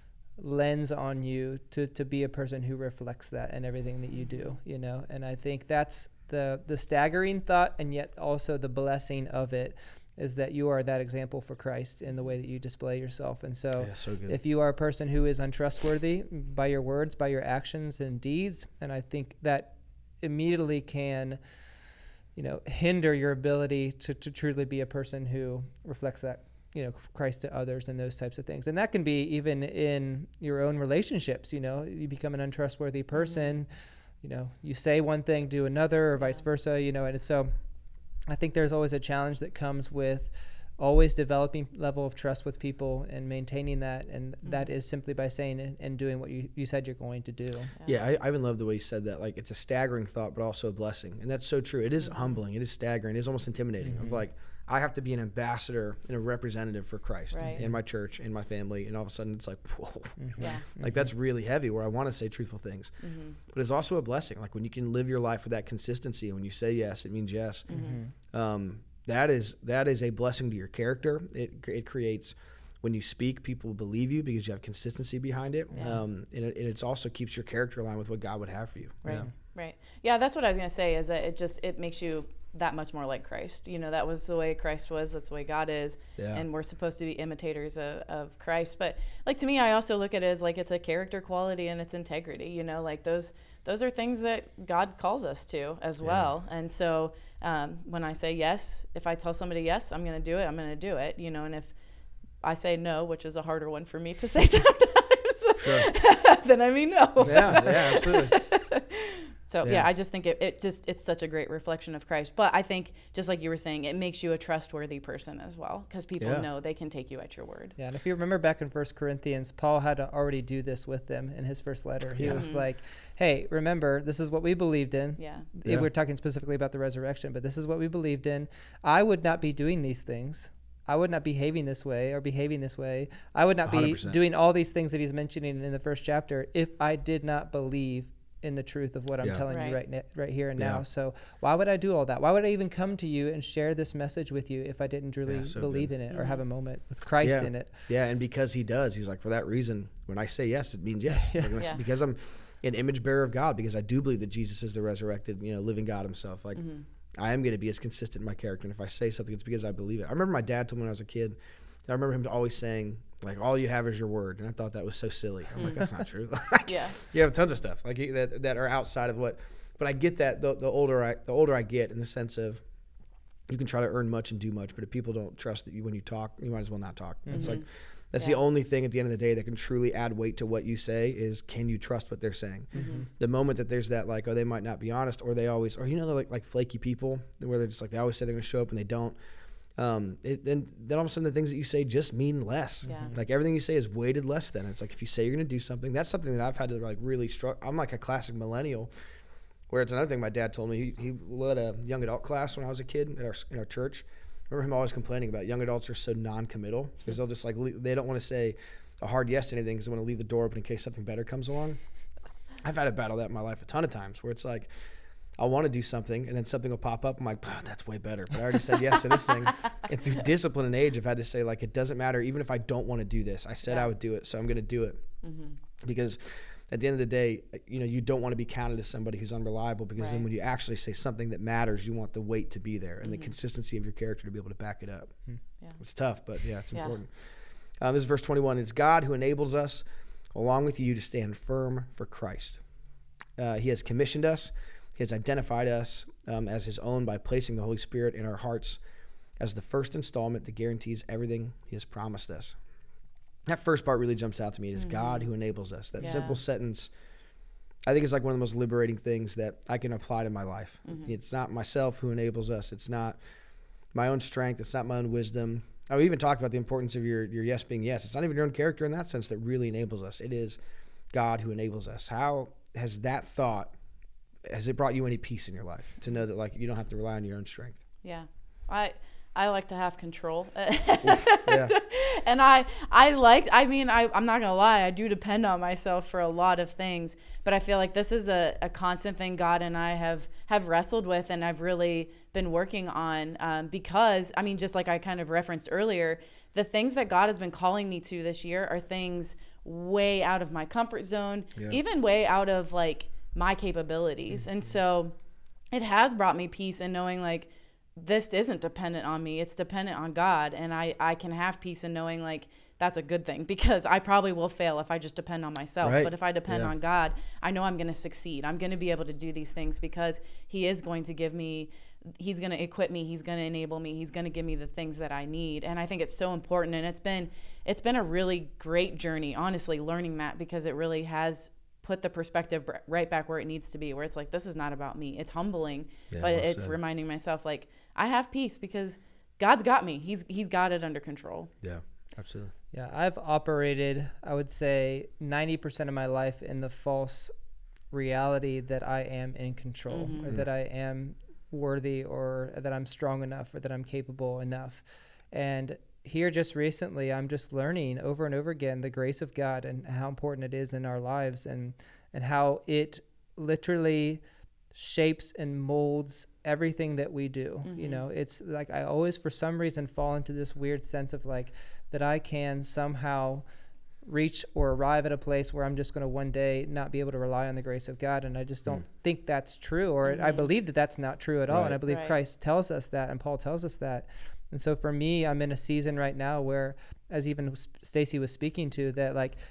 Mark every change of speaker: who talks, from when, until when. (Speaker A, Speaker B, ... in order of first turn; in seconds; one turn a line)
Speaker A: 0.4-21.4
Speaker B: 4.2-4.6
Speaker C: 13.8-14.4
Speaker A: 22.4-37.5
Speaker B: 33.1-33.5
Speaker A: 38.3-47.7
Speaker C: 47.9-63.0
Speaker A: 53.8-54.2
Speaker B: 57.3-57.6
Speaker A: 57.5-57.8
Speaker A: 60.2-61.1
Speaker B: 60.4-60.7
Speaker B: 63.0-63.4
Speaker C: 63.5-67.7
Speaker B: 67.7-68.0
Speaker A: 67.7-68.1
Speaker C: 68.2-79.3
Speaker A: 79.1-79.3
Speaker B: 79.2-101.7
Speaker C: 86.2-86.5
Speaker C: 96.0-96.3
Speaker B: 102.4-117.8
Speaker C: 105.6-105.9
Speaker C: 107.2-108.3
Speaker A: 107.4-107.7
Speaker C: 116.2-116.5
Speaker A: 117.8-147.8
Speaker C: 122.2-122.5
Speaker B: 122.3-122.7
Speaker B: 125.2-125.5
Speaker C: 133.7-134.2
Speaker B: 139.5-139.8
Speaker C: 140.6-140.8
Speaker C: 145.3-145.9
Speaker B: 146.1-146.4
Speaker C: 147.2-156.6
Speaker A: 151.2-151.6
Speaker B: 156.6-156.8
Speaker C: 157.2-172.6
Speaker B: 166.7-167.0
Speaker C: 173.5-189.2
Speaker A: 177.3-177.6
Speaker B: 177.3-177.7
Speaker B: 178.2-178.4
Speaker A: 182.7-183.1
Speaker B: 182.8-183.1
Speaker C: 189.8-198.9
Speaker A: 192.8-193.2
Speaker C: 199.7-211.8
Speaker C: 212.6-214.7
Speaker C: 215.4-225.0
Speaker B: 225.2-225.6
Speaker C: 225.8-235.2
Speaker B: 230.0-230.2
Speaker B: 233.0-233.3
Speaker C: 235.8-237.1
Speaker C: 237.8-242.6
Speaker C: 243.4-248.8
Speaker C: 249.4-252.6
Speaker C: 253.5-256.9
Speaker B: 254.8-255.3
Speaker B: 256.0-256.4
Speaker C: 257.9-263.2
Speaker B: 260.9-261.1
Speaker C: 263.9-270.6
Speaker C: 271.1-273.7
Speaker C: 274.5-277.8
Speaker B: 278.0-305.1
Speaker C: 281.0-281.7
Speaker B: 305.7-341.5
Speaker C: 315.8-316.7
Speaker C: 336.1-336.8
Speaker C: 341.6-342.5
Speaker A: 342.7-347.3
Speaker A: 347.9-364.2
Speaker B: 349.9-350.3
Speaker A: 364.7-373.4
Speaker B: 367.6-368.0
Speaker A: 374.1-389.4
Speaker B: 380.1-380.5
Speaker C: 381.5-381.8
Speaker B: 381.9-382.1